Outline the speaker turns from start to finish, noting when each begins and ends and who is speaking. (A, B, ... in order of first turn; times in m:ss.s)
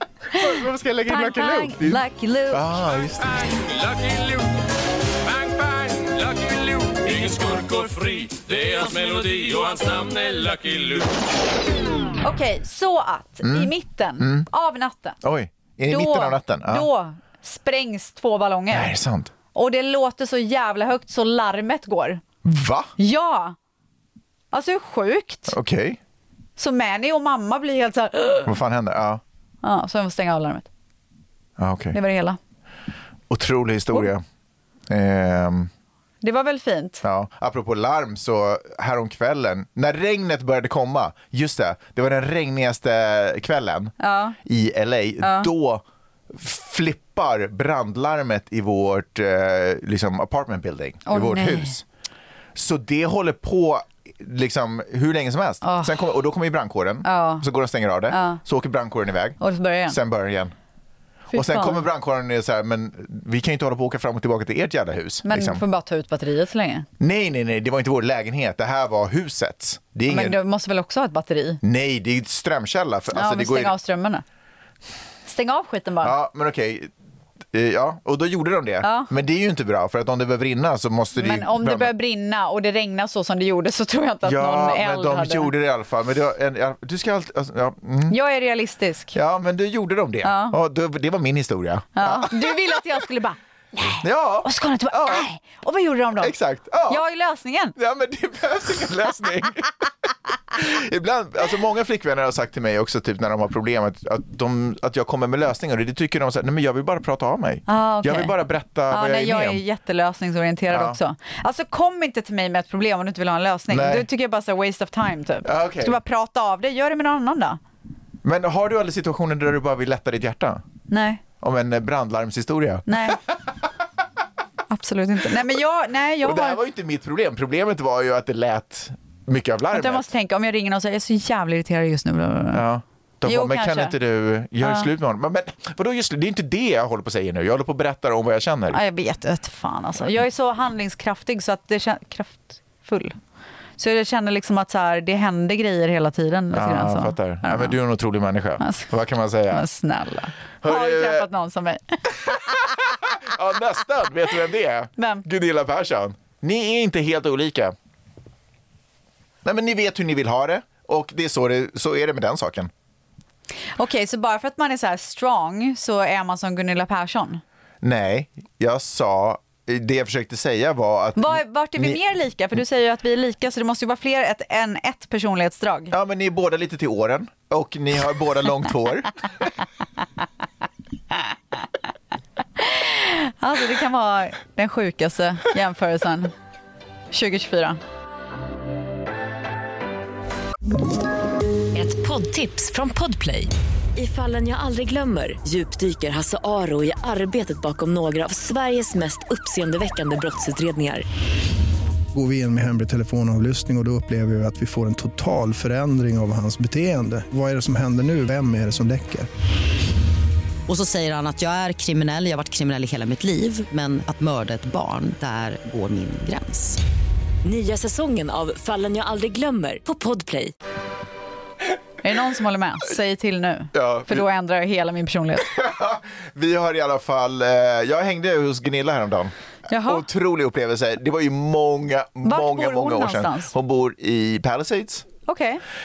0:00.3-0:02.8 A
0:00.3-0:03.5 B
0:03.4-0:04.5 C
0:05.3-0:11.2 C
0:12.2-0:15.2 A
0:13.4-0:14.5 B
0:15.2-0:16.9 B
0:15.9-0:18.9 A
0:18.7-0:19.3 B
0:19.5-0:22.2 A
0:22.4-0:22.9 B
0:23.0-0:23.6 A
0:24.5-0:25.5 A
0:25.5-0:26.0 B
0:26.6-0:28.5 A
0:28.5-0:29.2 B
0:29.6-0:30.7 A
0:31.6-0:32.0 B
0:31.9-0:32.4 A
0:33.3-0:34.2 B
0:34.9-0:35.7 B
0:36.2-0:37.0 A
0:37.0-0:43.9 B
0:44.0-0:44.4 A
0:44.4-0:51.8 B
0:45.2-0:45.5 A
0:51.1-0:51.8 A
0:52.6-1:00.5 B
0:55.6-0:55.9 A
0:57.0-0:57.5 A
0:58.1-0:58.4 A
0:59.4-1:00.0 A
1:01.3-1:01.8 A
1:01.3-1:05.6 B
1:05.2-1:06.9 A
1:07.0-1:10.4 B
1:10.1-1:11.6 A
1:11.6-1:13.8 B
1:13.1-1:14.2 A
1:15.3-1:16.2 A
1:16.0-1:16.9 B
1:17.5-1:21.9 B
1:18.8-1:19.1 A
1:21.2-1:25.5 A
1:24.2-1:28.2 B
1:28.1-1:29.2 A
1:29.1-1:32.6 B
1:30.2-1:30.6 A
1:32.0-1:36.3 A
1:34.0-1:35.3 B
1:36.2-1:37.0 B
1:36.9-1:37.8 A
1:37.8-1:39.7 B
1:40.5-1:49.6 B
1:47.7-1:48.3 A
1:48.9-1:57.6 A
1:50.7-1:51.0 B
1:53.7-1:54.1 B
1:55.4-1:56.0 B
1:58.2-2:00.6 B
2:00.9-2:01.2 A
2:01.4-2:03.2 B
2:02.9-2:03.2 A
2:04.7-2:06.6 A
2:06.2-2:10.1 B
2:09.7-2:12.6 A
2:12.5-2:18.8 B
2:13.2-2:14.0 A
2:14.6-2:14.9 A
2:18.7-2:23.2 A
2:23.8-2:27.8 A
2:26.5-2:29.7 B
2:28.6-2:28.9 A
2:29.5-2:32.9 A
2:30.6-2:31.3 B
2:32.2-2:37.8 B
2:35.0-2:35.2 A
2:39.4-2:42.7 B
2:43.8-2:47.4 A
2:47.8-2:52.0 B
2:51.2-2:55.9 A
2:55.9-2:59.5 B
3:02.6-3:06.3 A
3:07.1-3:07.8 A
3:11.8-3:21.0 D
3:22.1-3:29.3 E
3:30.7-3:36.8 F
3:37.4-3:40.5 D
3:42.0-3:45.6 A
3:43.7-3:44.2 B
3:45.4-3:55.1 B
3:49.7-3:50.0 A
3:52.2-3:53.5 A
3:55.3-3:55.6 A